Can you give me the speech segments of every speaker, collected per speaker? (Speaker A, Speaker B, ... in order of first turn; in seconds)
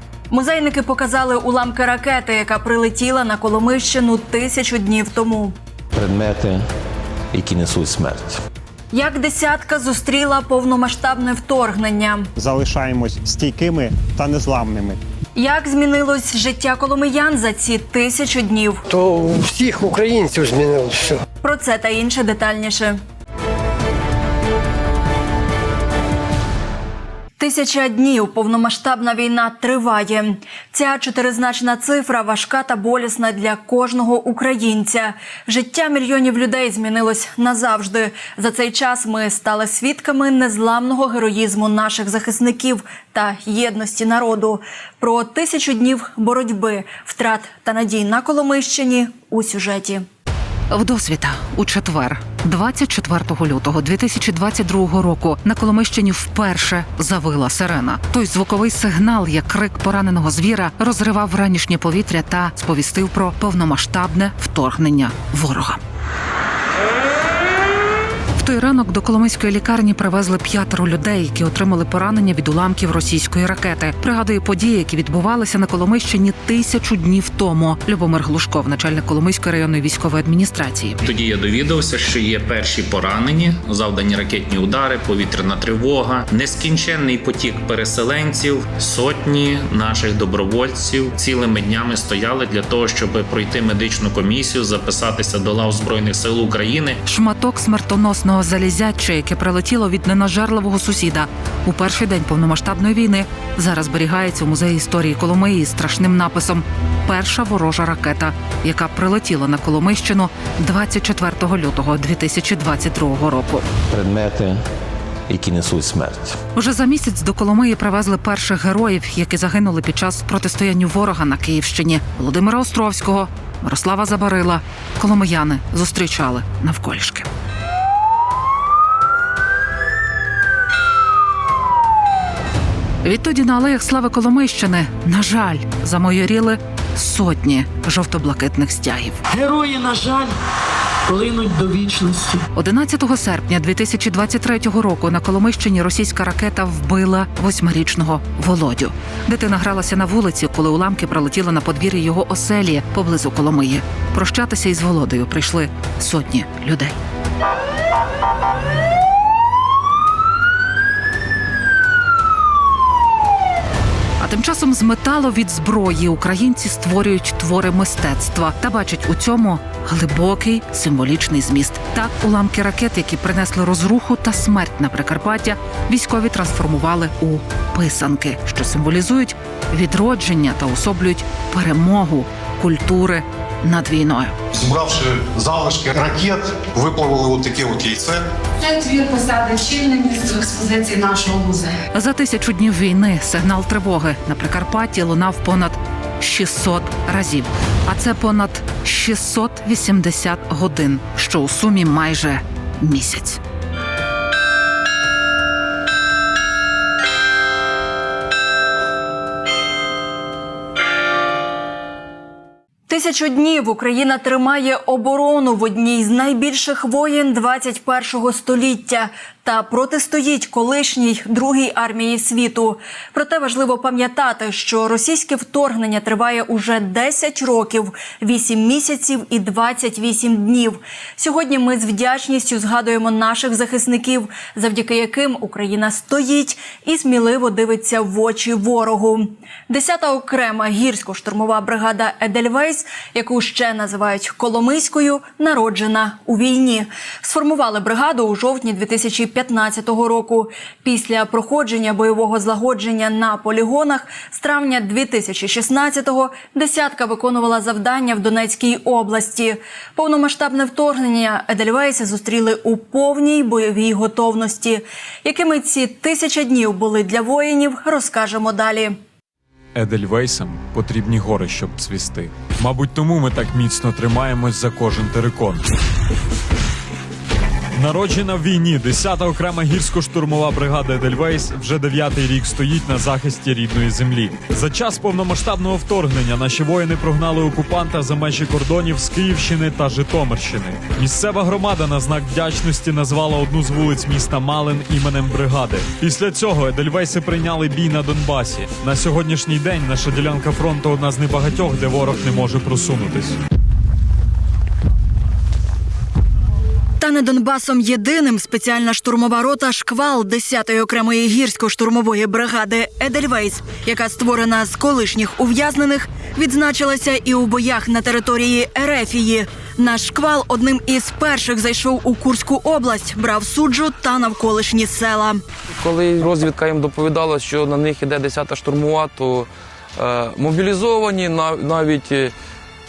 Speaker A: 0.3-5.5, 8.9-12.3, 15.4-18.8, 21.4-23.0, 27.4-50.0, 212.9-269.0, 307.0-325.4
Speaker B: 5.9-6.7, 7.3-8.4, 113.9-114.6, 115.3-116.4
Speaker C: 12.4-15.0
Speaker D: 18.9-21.2
Speaker E: 50.7-65.8, 68.4-81.0, 97.1-113.6, 116.6-127.3, 133.0-139.2, 142.6-157.0, 164.2-184.3, 191.9-203.4
Speaker F: 81.0-97.0
Speaker G: 139.3-140.3, 141.1-142.4
Speaker H: 184.5-188.3
Speaker I: 188.6-191.8
Speaker J: 269.8-275.7, 277.8-303.4
Speaker K: 325.7-332.3